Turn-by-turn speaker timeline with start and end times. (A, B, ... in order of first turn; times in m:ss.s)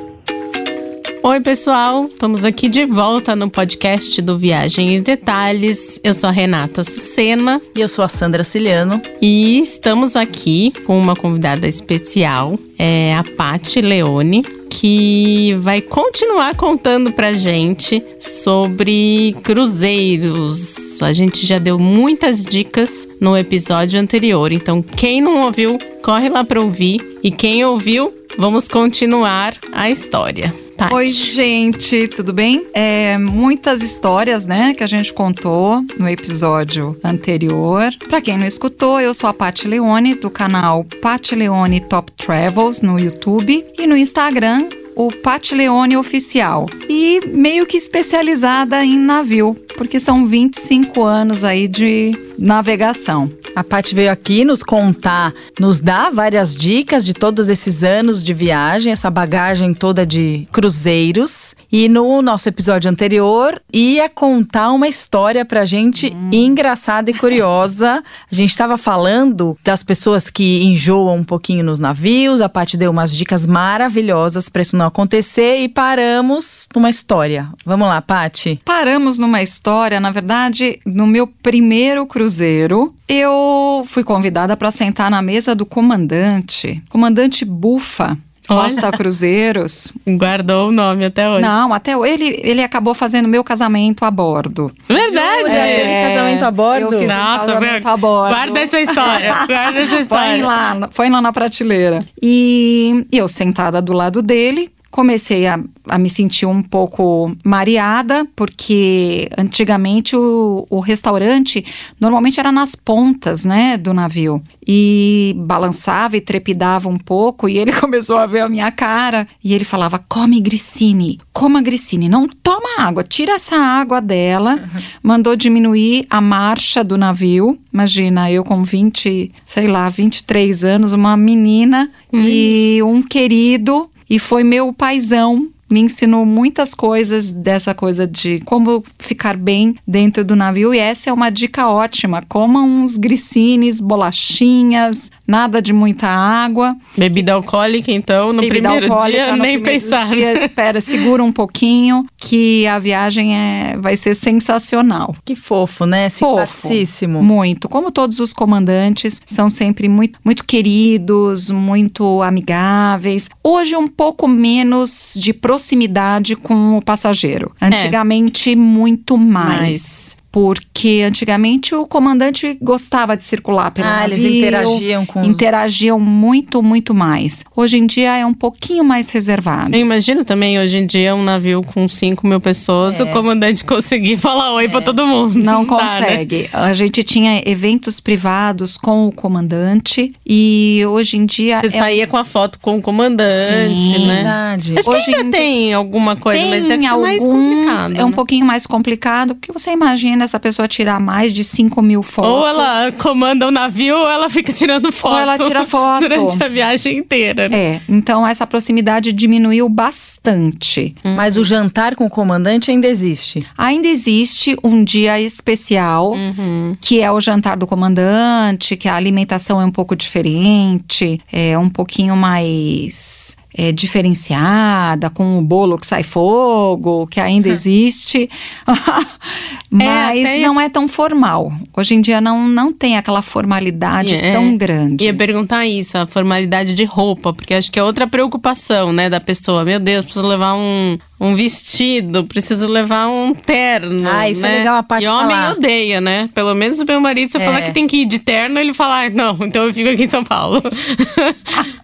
0:01.2-0:07.6 A
0:07.7-0:09.0 B
0:09.2-0:31.3 A
0:30.9-0:53.4 C
0:53.5-1:18.6 B
1:06.0-1:06.6 C
1:18.6-1:29.9 C
1:28.5-1:29.0 A
1:30.0-1:31.5 A
1:31.4-1:34.7 C
1:34.9-1:35.9 A
1:35.1-1:37.2 B
1:35.4-2:26.8 C
1:37.0-1:40.5 A
2:12.1-2:12.5 A
2:27.0-2:30.5 A
2:28.4-2:35.2 C
2:35.2-2:37.3 B
2:36.2-2:59.8 C
2:47.7-2:48.0 A
2:49.4-2:50.1 A
2:53.8-2:55.5 B
2:59.7-3:06.2 A
3:02.8-3:03.2 B
3:04.6-3:04.9 B
3:05.3-3:12.0 C
3:11.6-3:18.2 A
3:13.3-3:14.3 C
3:14.0-3:14.8 B
3:14.8-3:15.5 C
3:16.3-3:22.9 C
3:22.2-3:27.6 A
3:25.0-3:26.4 C
3:27.5-3:31.0 C
3:31.0-3:31.5 A
3:31.1-3:33.4 B
3:33.6-3:36.2 C
3:36.1-3:36.8 A
3:36.8-3:55.2 C
3:49.8-3:50.5 A
3:54.0-4:11.6 A
4:04.0-4:05.6 B
4:07.4-4:07.8 B